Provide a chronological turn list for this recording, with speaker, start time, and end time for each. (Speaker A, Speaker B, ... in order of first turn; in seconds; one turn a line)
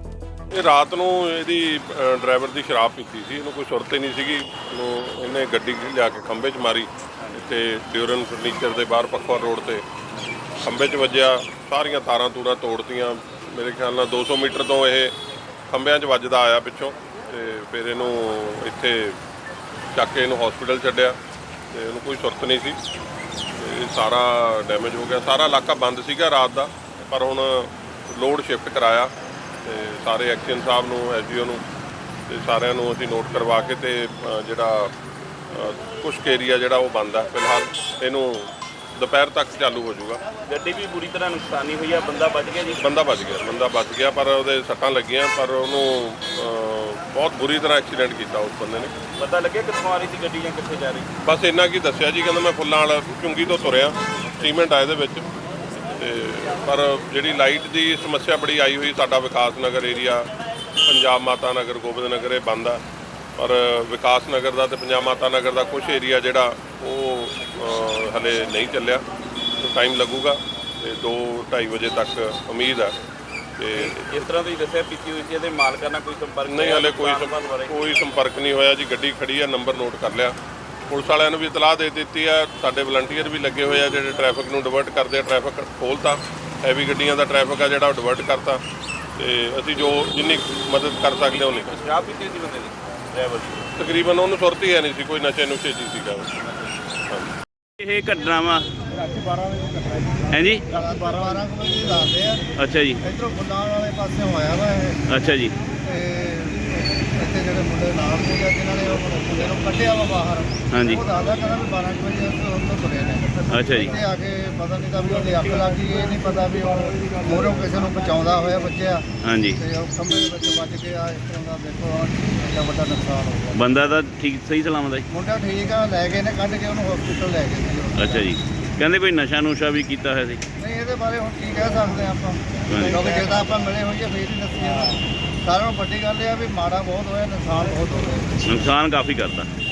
Speaker A: 0.5-9.8
Speaker A: 10.6-15.1
Speaker A: 15.7-19.2
Speaker A: 19.9-21.2
Speaker A: 21.7-22.8
Speaker A: 23.6-29.1
Speaker A: 29.6-31.6
Speaker A: 32.3-34.9
Speaker A: 35.5-40.2
Speaker B: 40.5-42.8
Speaker A: 42.8-48.9
Speaker B: 49.2-51.1
Speaker A: 51.2-55.3
Speaker A: 55.9-60.3
Speaker A: 60.9-62.8
Speaker A: 63.4-69.0
Speaker A: 69.6-72.9
Speaker A: 73.6-74.2
Speaker B: 73.8-77.7
Speaker A: 76.5-80.4
Speaker A: 80.9-88.6
Speaker A: 89.2-91.8
Speaker B: 91.3-93.7
Speaker A: 93.8-96.5
Speaker B: 97.8-98.7
Speaker B: 100.3-100.7
Speaker C: 100.7-102.4
Speaker B: 102.6-103.0
Speaker C: 103.0-105.0
Speaker B: 105.1-105.5
Speaker C: 105.8-123.6
Speaker B: 110.7-111.0
Speaker B: 113.5-114.0
Speaker B: 119.2-119.6
Speaker B: 123.5-125.1
Speaker C: 125.1-128.3
Speaker B: 128.0-130.4
Speaker C: 130.6-138.4
Speaker B: 132.7-133.0
Speaker B: 138.5-139.5